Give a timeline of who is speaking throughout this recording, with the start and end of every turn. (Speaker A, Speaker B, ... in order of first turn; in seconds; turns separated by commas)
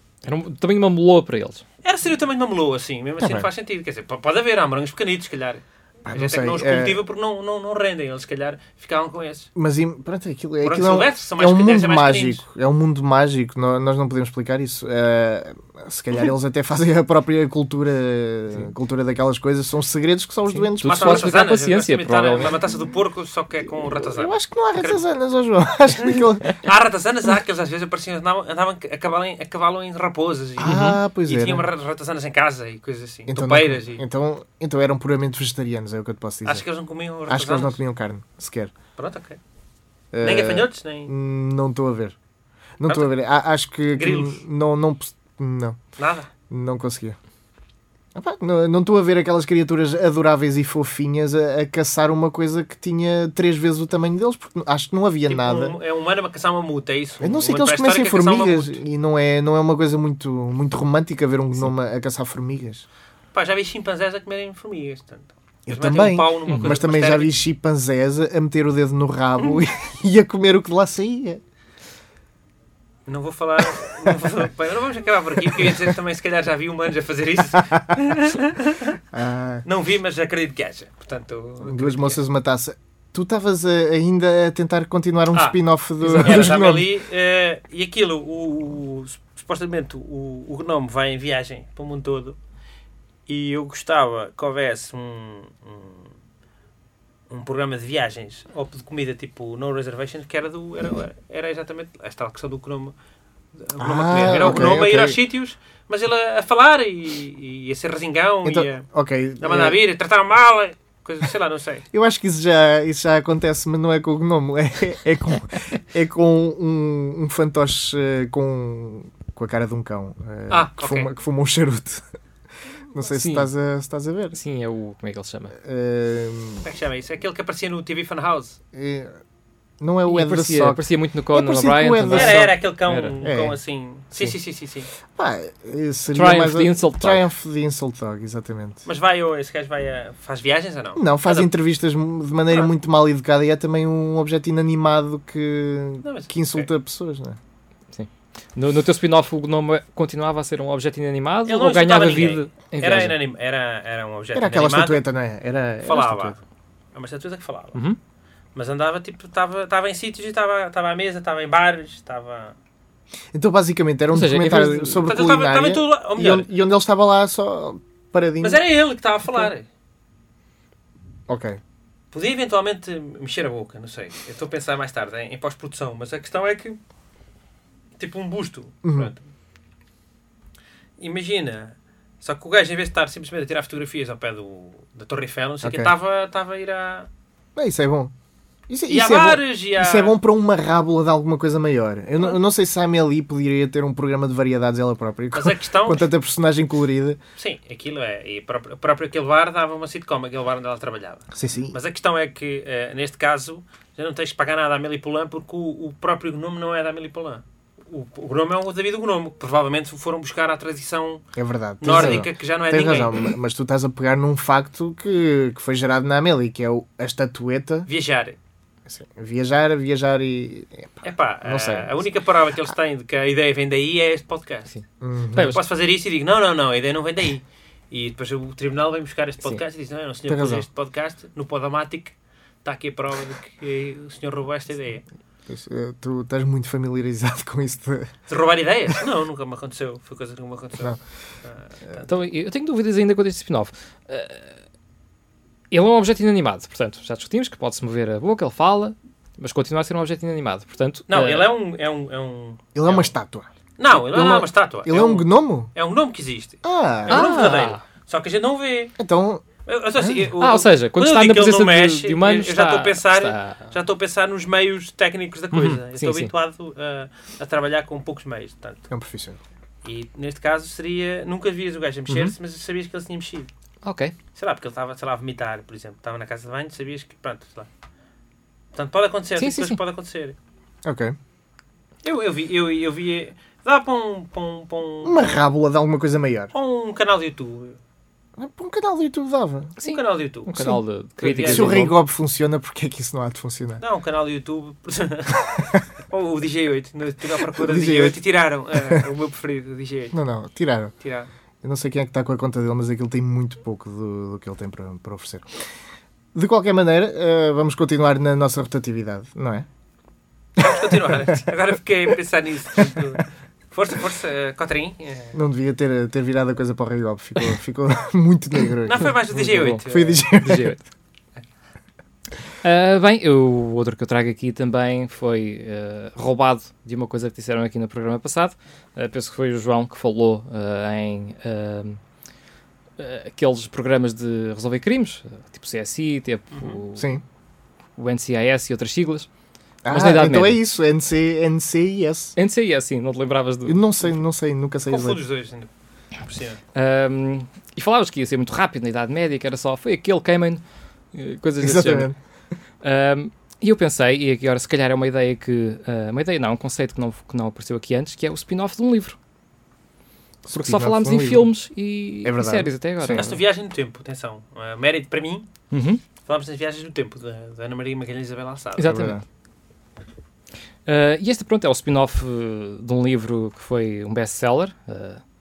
Speaker A: 0.2-1.6, Speaker B: 1.8-9.5, Speaker C: 3.2-3.5, Speaker C: 6.1-7.0, Speaker C: 9.6-21.3, Speaker B: 10.6-12.4, Speaker A: 20.5-22.6, Speaker B: 20.8-25.0, Speaker C: 23.9-26.6, Speaker B: 26.0-34.0, Speaker C: 30.6-31.7, Speaker A: 30.6-31.0, Speaker C: 33.3-36.6, Speaker B: 36.5-37.8, Speaker C: 37.3-38.7, Speaker B: 39.0-39.4, Speaker C: 40.1-42.1, Speaker B: 40.2-41.1, Speaker C: 42.8-45.8, Speaker B: 43.9-44.4, Speaker B: 46.0-46.3, Speaker C: 46.5-47.2, Speaker C: 48.1-55.8, Speaker B: 55.3-58.8, Speaker C: 57.2-62.9, Speaker B: 63.3-67.4, Speaker C: 65.7-71.4, Speaker A: 66.5-66.8, Speaker B: 73.1-79.0, Speaker C: 79.1-79.7, Speaker B: 79.7-82.2, Speaker C: 81.6-86.9, Speaker B: 85.3-92.4, Speaker A: 86.0-86.6, Speaker B: 93.3-96.1, Speaker B: 97.3-102.9, Speaker B: 103.6-108.9, Speaker C: 103.8-105.2, Speaker C: 108.4-109.8, Speaker B: 109.4-111.9, Speaker C: 111.9-122.0, Speaker B: 120.5-121.1, Speaker C: 122.9-124.4, Speaker A: 123.1-123.5, Speaker A: 124.3-125.5, Speaker C: 125.6-126.6, Speaker B: 126.6-128.6, Speaker C: 128.7-129.2, Speaker C: 129.8-132.5, Speaker A: 130.1-133.2, Speaker B: 132.1-134.9, Speaker C: 133.2-133.6, Speaker C: 135.1-138.8, Speaker A: 136.1-137.2, Speaker B: 138.8-141.5, Speaker C: 141.0-147.4, Speaker B: 146.0-146.7, Speaker A: 147.9-153.2, Speaker B: 151.5-155.0, Speaker C: 154.3-156.4, Speaker B: 155.8-156.4, Speaker B: 156.9-157.8, Speaker B: 158.6-162.6, Speaker C: 163.3-168.6, Speaker A: 164.1-165.1, Speaker B: 165.1-166.5, Speaker B: 168.4-169.7, Speaker C: 171.3-171.6, Speaker B: 172.1-176.8, Speaker B: 178.0-179.2, Speaker C: 178.8-179.1, Speaker B: 181.0-187.1, Speaker C: 185.6-185.9, Speaker C: 187.6-188.1, Speaker C: 188.7-197.2, Speaker B: 188.9-190.2, Speaker B: 195.3-196.1, Speaker B: 197.4-211.3, Speaker C: 201.3-201.8, Speaker C: 211.4-217.9, Speaker B: 211.8-213.2, Speaker A: 211.9-212.2, Speaker B: 217.9-218.4, Speaker C: 218.9-222.0, Speaker B: 221.0-224.7, Speaker A: 224.7-225.6, Speaker C: 225.0-225.6, Speaker B: 225.5-235.1, Speaker C: 230.3-230.7, Speaker C: 235.5-238.1, Speaker B: 238.3-242.1, Speaker A: 242.0-244.6, Speaker A: 245.7-251.5, Speaker B: 251.1-253.1, Speaker C: 252.8-255.7, Speaker B: 253.8-258.9, Speaker C: 256.6-257.2, Speaker A: 257.1-257.8, Speaker C: 259.0-259.4, Speaker B: 259.6-268.9, Speaker C: 260.0-260.3, Speaker A: 260.4-263.7, Speaker A: 265.5-266.3, Speaker C: 268.9-269.4, Speaker B: 269.8-273.5, Speaker A: 272.1-272.3, Speaker A: 273.8-274.1, Speaker B: 274.4-277.7, Speaker B: 278.7-280.4, Speaker A: 279.4-279.8, Speaker C: 280.9-281.2, Speaker B: 282.0-285.3, Speaker C: 285.0-286.5, Speaker B: 286.5-287.8, Speaker C: 288.4-289.8, Speaker A: 289.8-292.0, Speaker B: 289.8-290.7, Speaker B: 291.2-291.9, Speaker C: 291.4-293.8, Speaker B: 293.8-300.2, Speaker C: 297.5-298.2, Speaker C: 298.7-299.1, Speaker C: 300.1-300.9, Speaker B: 301.0-301.3, Speaker C: 301.6-305.5, Speaker C: 306.4-309.7, Speaker B: 310.6-315.4, Speaker C: 315.3-320.8, Speaker B: 318.8-320.3, Speaker A: 319.3-320.8, Speaker A: 322.6-332.0, Speaker A: 333.0-337.1, Speaker C: 337.0-337.2, Speaker A: 338.0-339.3, Speaker C: 339.8-342.4, Speaker A: 339.9-340.6, Speaker A: 342.4-343.8, Speaker C: 343.7-345.2, Speaker B: 344.9-345.7, Speaker B: 346.2-346.6, Speaker A: 346.8-350.6, Speaker A: 351.1-352.1, Speaker C: 351.6-352.2, Speaker A: 352.8-359.2, Speaker C: 360.4-361.5, Speaker A: 360.5-363.4, Speaker C: 362.2-363.3, Speaker B: 363.1-365.5, Speaker A: 365.7-366.0, Speaker B: 366.2-369.0, Speaker A: 368.8-369.2, Speaker C: 368.9-369.2, Speaker A: 370.9-375.2